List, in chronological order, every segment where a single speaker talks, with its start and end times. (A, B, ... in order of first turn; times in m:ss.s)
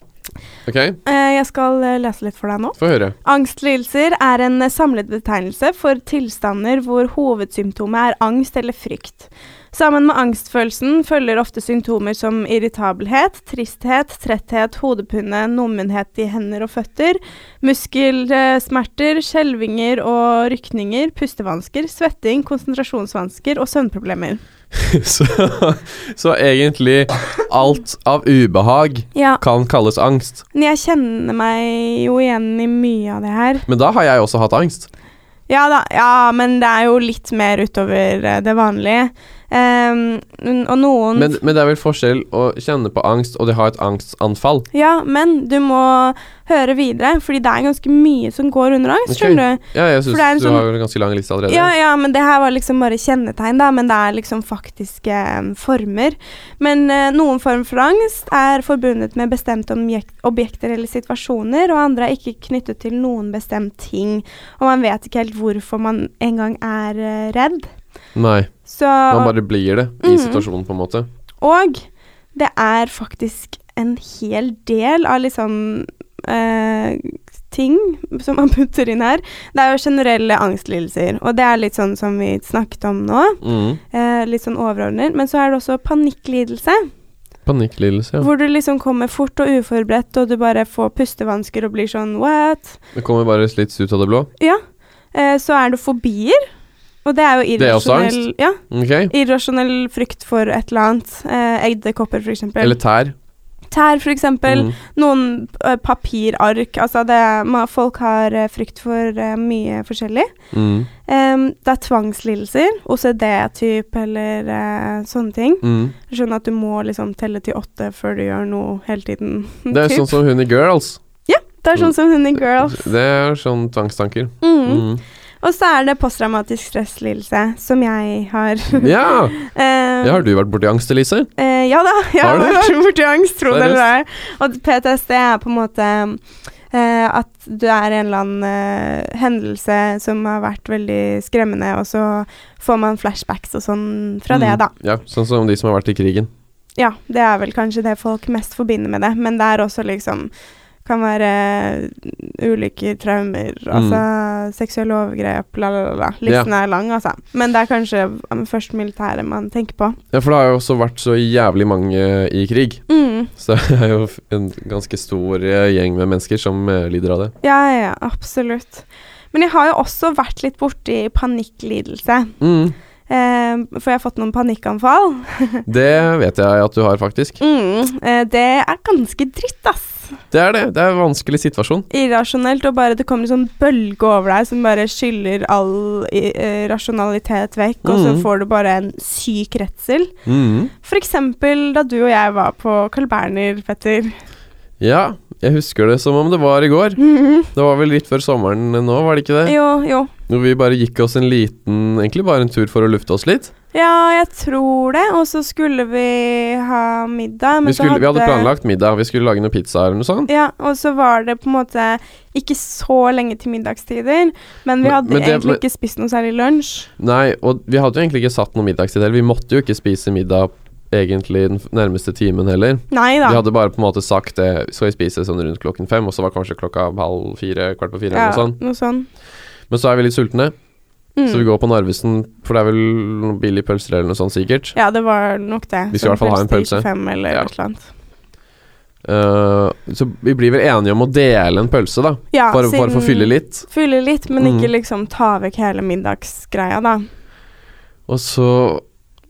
0:00.6-0:01.0 A
0:01.0-0:24.4 B
0:02.8-0:03.1 A
0:24.7-0:30.4 A
0:29.1-0:29.4 B
0:30.5-0:33.6 B
0:33.7-0:34.9 A
0:35.5-0:41.4 B
0:41.2-0:44.6 A
0:44.7-0:50.6 B
0:49.1-0:51.7 A
0:51.5-1:07.7 B
1:08.1-1:08.5 A
1:08.6-1:09.4 B
1:09.1-1:11.1 A
1:10.0-1:10.5 B
1:11.4-1:26.9 B
1:23.4-1:23.8 A
1:27.4-1:28.3 A
1:28.2-1:32.8 B
1:32.9-1:34.3 A
1:35.1-1:36.4 B
1:37.0-1:38.6 B
1:37.6-1:39.1 A
1:39.1-1:42.8 B
1:42.6-1:43.1 A
1:43.7-1:50.3 B
1:44.5-1:44.7 A
1:50.5-1:50.9 A
1:51.0-2:00.1 B
1:55.6-1:55.9 A
1:59.7-2:01.0 A
2:01.3-2:02.9 B
2:02.6-2:05.0 A
2:04.4-2:04.9 B
2:05.4-2:10.2 B
2:08.7-2:09.4 A
2:10.0-2:11.3 A
2:11.4-2:24.7 B
2:12.2-2:12.8 A
2:13.5-2:13.8 A
2:24.3-2:26.3 A
2:26.8-2:30.3 B
2:30.8-2:40.0 B
2:33.7-2:34.0 A
2:40.1-2:42.8 A
2:42.9-2:43.3 B
2:43.4-2:47.3 A
2:47.4-2:52.4 B
2:52.4-2:52.8 A
2:53.1-2:55.6 B
2:55.7-2:57.4 A
2:57.4-3:00.1 B
3:00.3-3:01.8 A
3:01.9-3:10.2 B
3:07.8-3:08.3 A
3:10.2-3:10.7 A
3:10.8-3:14.1 B
3:14.8-3:19.6 A
3:17.0-3:17.5 B
3:19.4-3:20.1 B
3:20.3-3:23.5 A
3:23.7-3:28.5 B
3:27.6-3:30.3 A
3:30.3-3:36.9 B
3:34.8-3:35.6 A
3:37.0-3:48.6 A
3:42.9-3:43.4 B
3:48.1-3:49.1 B
3:49.7-3:50.5 A
3:51.2-3:51.4 B
3:51.3-3:54.7 A
3:54.7-3:57.9 B
3:55.9-3:57.5 A
3:59.0-4:03.6 A
4:02.3-4:07.0 B
4:04.4-4:04.7 A
4:08.1-4:08.8 A